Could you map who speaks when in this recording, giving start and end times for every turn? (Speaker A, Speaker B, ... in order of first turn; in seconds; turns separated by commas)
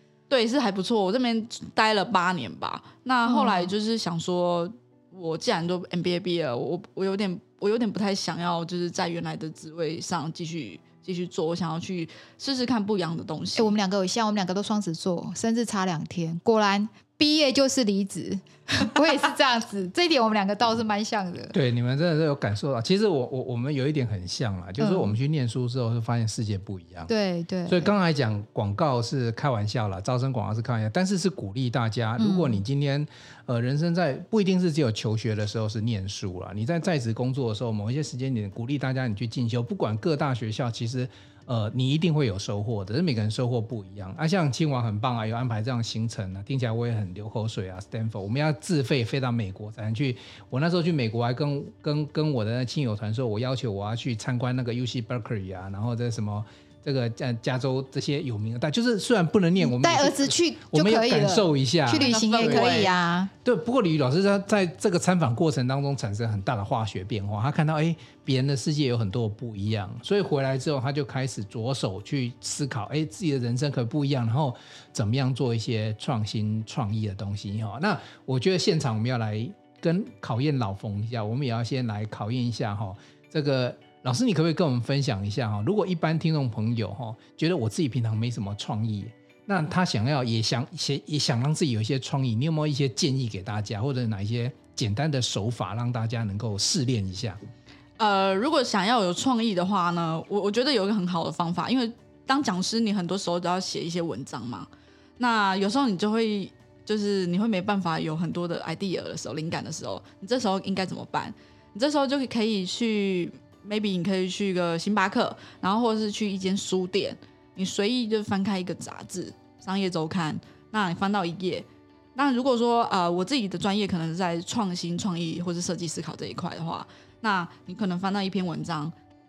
Speaker A: 0.3-13.7, Speaker B: 3.2-3.7, Speaker B: 13.6-21.6, Speaker C: 21.5-27.1, Speaker B: 24.8-25.2, Speaker B: 27.1-27.9, Speaker C: 27.7-62.9, Speaker B: 32.2-32.6, Speaker B: 59.6-63.3, Speaker A: 62.0-63.0, Speaker C: 63.4-97.4, Speaker A: 98.0-128.9